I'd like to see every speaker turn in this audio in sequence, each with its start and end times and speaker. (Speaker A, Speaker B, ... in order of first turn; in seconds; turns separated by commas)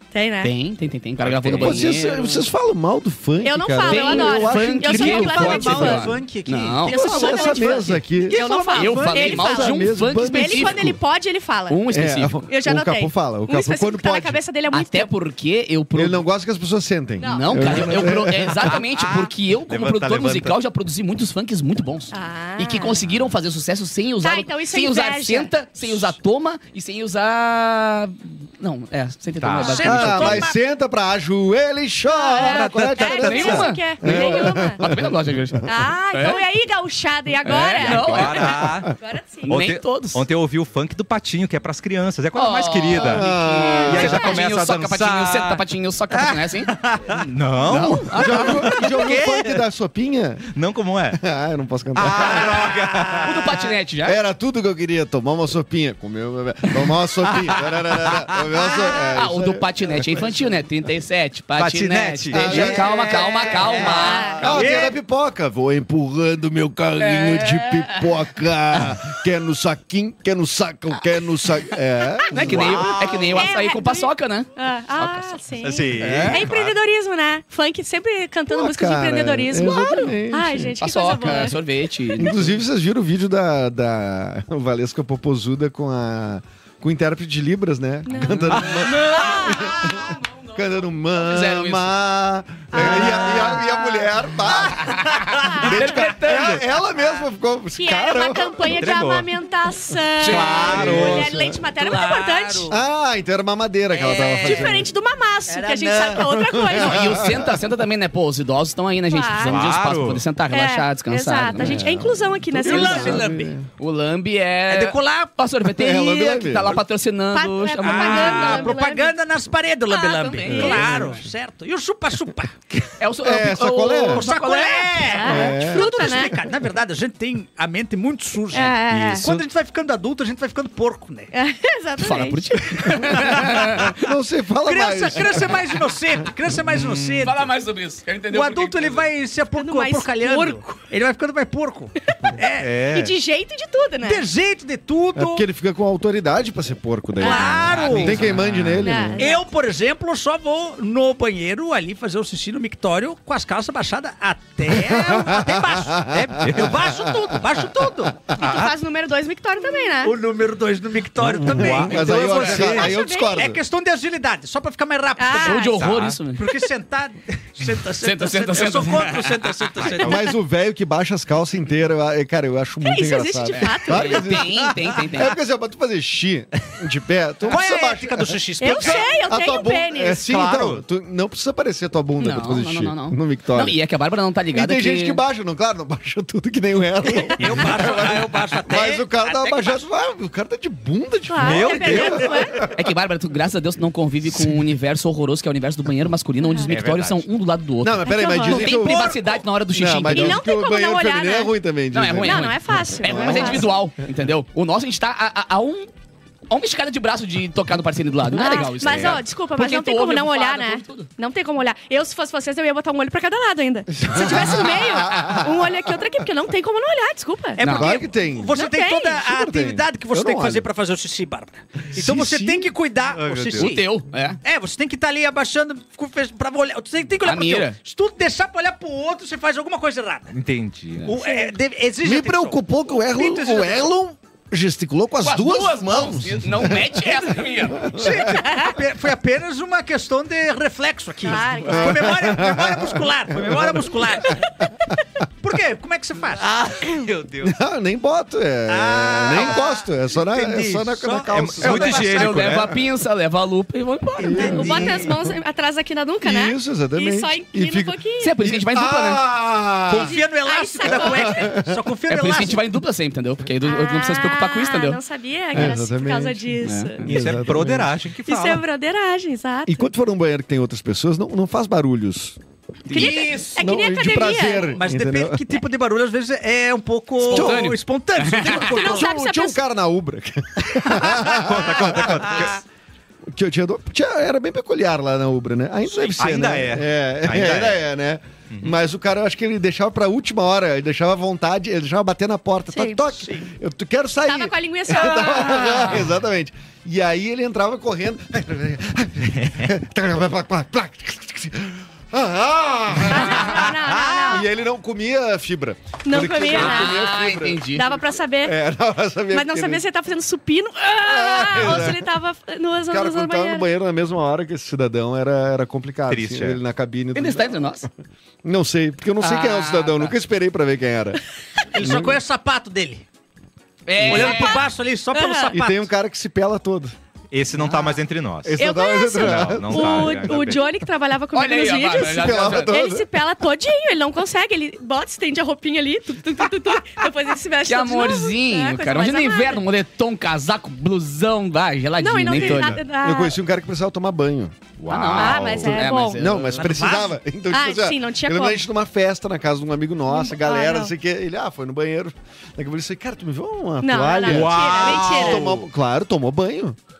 Speaker A: 0.1-0.5, Speaker B: 0.4-2.5, Speaker C: 1.2-1.9, Speaker D: 1.5-5.5, Speaker A: 3.4-6.2, Speaker B: 3.8-7.0, Speaker E: 4.9-7.7, Speaker A: 6.9-11.8, Speaker D: 6.9-8.4, Speaker E: 8.3-9.7, Speaker B: 8.7-11.0, Speaker D: 9.5-11.0, Speaker B: 11.7-12.3, Speaker D: 11.9-14.4, Speaker A: 12.5-15.1, Speaker B: 14.7-16.2, Speaker D: 15.9-18.7, Speaker A: 17.2-18.0, Speaker B: 17.2-30.5, Speaker C: 18.6-20.6, Speaker A: 22.1-23.0, Speaker A: 24.2-25.5, Speaker C: 29.4-29.9, Speaker E: 29.6-30.6, Speaker A: 29.8-30.4, Speaker D: 29.8-35.1, Speaker A: 32.1-34.8, Speaker E: 32.4-33.1, Speaker B: 33.1-36.4, Speaker A: 35.6-39.5, Speaker B: 37.4-38.8, Speaker C: 37.8-38.9, Speaker B: 39.4-40.2, Speaker C: 39.5-45.6, Speaker B: 42.3-46.7, Speaker D: 42.9-44.2, Speaker A: 43.9-44.4, Speaker E: 46.1-47.2, Speaker C: 47.1-49.5, Speaker B: 47.6-48.8, Speaker D: 48.1-50.5, Speaker E: 48.4-48.9, Speaker C: 50.5-51.2, Speaker D: 51.1-53.2, Speaker C: 51.9-53.3, Speaker E: 52.6-53.2, Speaker B: 53.2-54.2, Speaker D: 54.0-60.4, Speaker C: 57.2-58.4, Speaker A: 58.5-59.2, Speaker B: 59.0-64.5, Speaker C: 61.6-63.8, Speaker E: 61.9-64.9, Speaker D: 62.3-63.2, Speaker A: 63.9-64.5, Speaker D: 64.3-72.9, Speaker B: 67.0-68.2, Speaker B: 68.7-69.1, Speaker B: 72.3-75.4, Speaker C: 72.4-73.5, Speaker A: 73.3-82.5, Speaker C: 75.6-76.7, Speaker B: 76.0-76.4, Speaker D: 76.0-76.4, Speaker D: 78.5-81.4, Speaker B: 80.8-82.5, Speaker D: 82.2-98.9, Speaker A: 88.1-90.0, Speaker B: 88.2-90.0, Speaker B: 91.2-91.9, Speaker A: 92.7-94.2, Speaker E: 94.9-95.5, Speaker A: 95.4-95.9, Speaker B: 95.6-96.6, Speaker E: 96.2-97.2, Speaker A: 97.8-102.7, Speaker C: 98.7-99.3, Speaker C: 100.2-101.3, Speaker B: 100.2-100.7, Speaker D: 100.5-101.6, Speaker E: 101.5-102.8, Speaker D: 102.7-104.9, Speaker E: 103.9-104.8, Speaker A: 104.2-107.2, Speaker E: 105.5-106.3, Speaker D: 106.0-107.6, Speaker B: 106.7-111.9, Speaker A: 109.1-109.6, Speaker C: 109.5-110.3, Speaker A: 110.5-113.2, Speaker D: 111.6-113.7, Speaker E: 112.7-113.5, Speaker B: 113.8-118.7, Speaker E: 114.7-115.3, Speaker D: 115.7-116.8, Speaker A: 117.3-119.2, Speaker E: 117.8-122.7, Speaker B: 119.9-121.2, Speaker A: 119.9-121.0, Speaker B: 123.0-124.9, Speaker D: 123.2-124.2, Speaker E: 124.0-131.3, Speaker A: 124.4-126.3, Speaker D: 125.2-126.0, Speaker A: 128.5-129.2, Speaker C: 128.9-129.4, Speaker A: 131.3-133.0, Speaker B: 132.0-133.9, Speaker E: 132.7-133.9, Speaker D: 133.5-135.9, Speaker E: 134.7-137.5, Speaker C: 136.7-137.3, Speaker B: 137.2-139.1, Speaker E: 138.3-142.7, Speaker A: 139.5-140.9, Speaker A: 142.1-144.3, Speaker C: 142.6-143.2, Speaker E: 144.0-145.4, Speaker D: 145.2-149.2, Speaker A: 147.2-147.9, Speaker E: 147.2-148.3, Speaker C: 147.3-148.8, Speaker A: 148.8-149.5, Speaker E: 149.2-158.3, Speaker D: 154.7-158.1, Speaker C: 156.4-156.8, Speaker C: 158.3-158.7, Speaker A: 158.3-160.2, Speaker E: 160.0-165.8, Speaker D: 161.2-163.6, Speaker C: 161.4-162.8, Speaker A: 162.6-163.4, Speaker A: 165.2-165.7, Speaker B: 165.4-166.5, Speaker C: 165.7-166.2, Speaker E: 166.3-170.3, Speaker B: 168.0-169.7, Speaker C: 169.8-170.2, Speaker D: 170.0-183.8, Speaker A: 172.8-174.5, Speaker B: 173.5-175.4, Speaker E: 177.5-179.2, Speaker A: 178.6-180.3, Speaker C: 180.2-180.8, Speaker B: 182.2-185.2, Speaker D: 184.5-192.7, Speaker E: 187.1-189.8, Speaker A: 191.3-192.6, Speaker C: 191.4-192.5, Speaker E: 191.7-192.2, Speaker B: 192.7-200.4, Speaker A: 196.4-196.7, Speaker C: 196.7-197.3, Speaker D: 197.8-199.2, Speaker A: 198.0-199.0, Speaker E: 198.7-199.4, Speaker D: 199.7-203.7, Speaker A: 200.1-201.6, Speaker B: 201.9-205.9, Speaker A: 202.2-203.8, Speaker B: 206.5-211.1, Speaker A: 208.3-217.6, Speaker C: 208.8-209.1, Speaker D: 213.9-216.2, Speaker E: 217.5-223.8, Speaker B: 217.6-218.0, Speaker D: 217.6-218.6, Speaker A: 218.5-219.2, Speaker D: 219.2-220.7, Speaker D: 221.9-222.7, Speaker C: 223.1-223.7, Speaker B: 223.5-224.4, Speaker E: 224.4-230.3, Speaker B: 227.2-227.8, Speaker C: 230.3-231.2, Speaker E: 231.0-233.9, Speaker A: 231.2-231.6, Speaker D: 232.0-238.4, Speaker B: 235.2-237.9, Speaker E: 237.8-244.5, Speaker A: 238.4-238.8, Speaker A: 241.2-242.2, Speaker D: 241.7-244.1, Speaker E: 245.4-246.5, Speaker C: 246.3-247.5, Speaker D: 247.4-252.2, Speaker E: 248.7-252.3, Speaker C: 251.3-252.8, Speaker B: 251.6-254.9, Speaker D: 254.2-255.3, Speaker A: 254.3-258.4, Speaker E: 254.3-255.1, Speaker D: 256.2-260.1, Speaker B: 258.2-259.2, Speaker E: 259.9-262.7, Speaker A: 259.9-261.6, Speaker D: 260.9-261.8, Speaker B: 262.1-265.0, Speaker A: 263.6-267.5, Speaker D: 265.5-267.9, Speaker B: 266.6-266.9, Speaker C: 267.0-268.6, Speaker A: 268.2-269.9, Speaker D: 269.7-272.4, Speaker B: 272.9-273.6, Speaker A: 272.9-274.8, Speaker D: 273.6-275.4, Speaker E: 274.8-279.1, Speaker B: 277.2-278.8, Speaker D: 277.3-277.7, Speaker A: 278.4-279.6, Speaker D: 278.8-282.6, Speaker C: 281.1-282.6, Speaker D: 283.3-307.7, Speaker C: 286.0-287.8, Speaker A: 292.7-293.1, Speaker E: 293.2-293.5, Speaker A: 294.2-296.0, Speaker C: 299.3-299.6, Speaker A: 303.1-304.5, Speaker C: 303.5-304.3, Speaker A: 306.0-307.1, Speaker B: 306.5-308.0, Speaker A: 307.6-308.6, Speaker D: 308.4-309.8, Speaker A: 309.3-313.7, Speaker D: 311.0-312.1, Speaker D: 312.9-317.7, Speaker C: 316.1-316.6, Speaker B: 317.1-317.9, Speaker D: 318.4-321.2, Speaker B: 319.2-320.1, Speaker E: 321.7-323.0, Speaker D: 321.8-322.2, Speaker B: 323.9-324.6, Speaker E: 324.0-325.9, Speaker A: 324.1-325.6, Speaker D: 325.5-327.0, Speaker C: 327.3-328.6, Speaker B: 327.6-328.0, Speaker D: 328.4-330.6, Speaker A: 328.6-339.6, Speaker C: 329.2-330.6, Speaker B: 331.3-332.8, Speaker D: 332.0-333.1, Speaker B: 337.6-342.8, Speaker A: 342.0-343.4, Speaker D: 342.3-344.6, Speaker C: 344.8-345.8, Speaker B: 344.9-346.7, Speaker A: 345.1-346.2, Speaker D: 346.1-356.8, Speaker E: 346.6-347.2, Speaker A: 347.5-348.6, Speaker A: 350.1-350.9, Speaker A: 353.8-355.5, Speaker C: 354.2-355.7